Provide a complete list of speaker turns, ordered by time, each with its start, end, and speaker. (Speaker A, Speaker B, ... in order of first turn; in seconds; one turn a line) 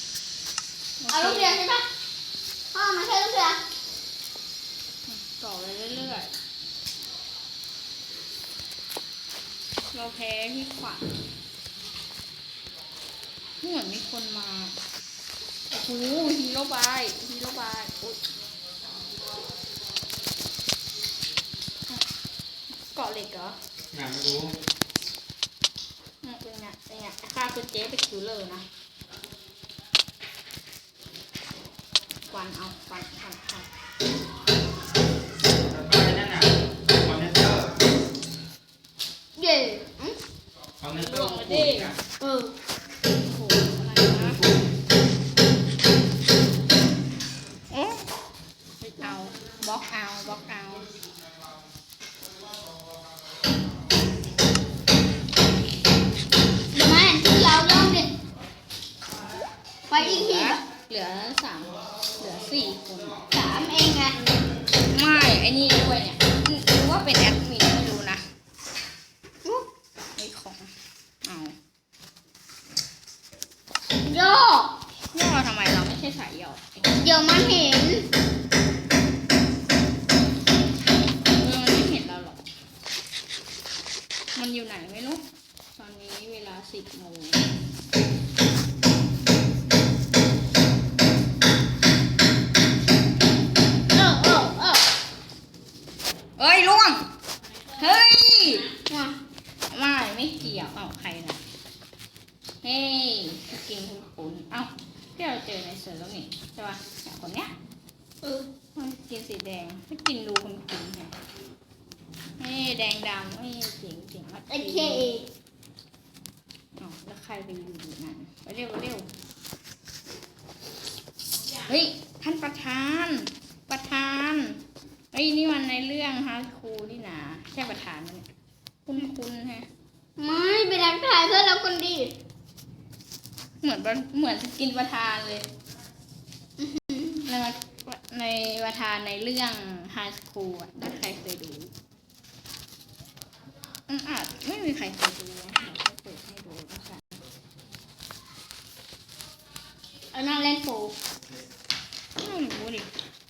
Speaker A: 1.0-1.6
Speaker B: 1.1-1.8
Speaker B: 2.7-3.6
Speaker A: 5.0-6.3
Speaker A: 9.9-11.1
Speaker A: 13.6-14.8
Speaker A: 15.7-18.2
Speaker A: 22.8-23.6
Speaker C: 23.9-24.6
Speaker A: 26.2-28.6
Speaker A: 32.3-33.7
Speaker C: 35.5-37.8
Speaker B: 39.4-40.1
Speaker C: 40.8-42.0
Speaker A: 41.0-41.9
Speaker B: 42.2-42.5
Speaker A: 43.2-44.4
Speaker C: 44.1-44.6
Speaker A: 47.7-48.1
Speaker A: 48.8-50.9
Speaker B: 56.7-58.1
Speaker B: 59.9-60.6
Speaker A: 59.9-63.2
Speaker B: 63.3-64.2
Speaker A: 64.9-68.2
Speaker A: 70.1-70.7
Speaker A: 71.2-71.5
Speaker B: 74.0-74.7
Speaker A: 75.1-76.9
Speaker B: 77.0-78.1
Speaker A: 81.3-82.4
Speaker A: 84.3-85.2
Speaker A: 85.7-87.5
Speaker B: 93.9-94.8
Speaker A: 96.4-97.1
Speaker A: 97.8-98.7
Speaker B: 98.9-99.2
Speaker A: 99.7-101.4
Speaker A: 102.6-107.5
Speaker B: 108.2-108.5
Speaker A: 108.7-111.1
Speaker A: 112.4-115.2
Speaker B: 114.5-115.2
Speaker A: 116.8-119.1
Speaker A: 121.6-128.3
Speaker A: 128.8-129.7
Speaker B: 130.2-132.1
Speaker A: 133.6-135.4
Speaker B: 136.6-137.2
Speaker A: 137.2-141.7
Speaker A: 143.9-147.2
Speaker B: 150.1-150.9
Speaker A: 152.2-152.9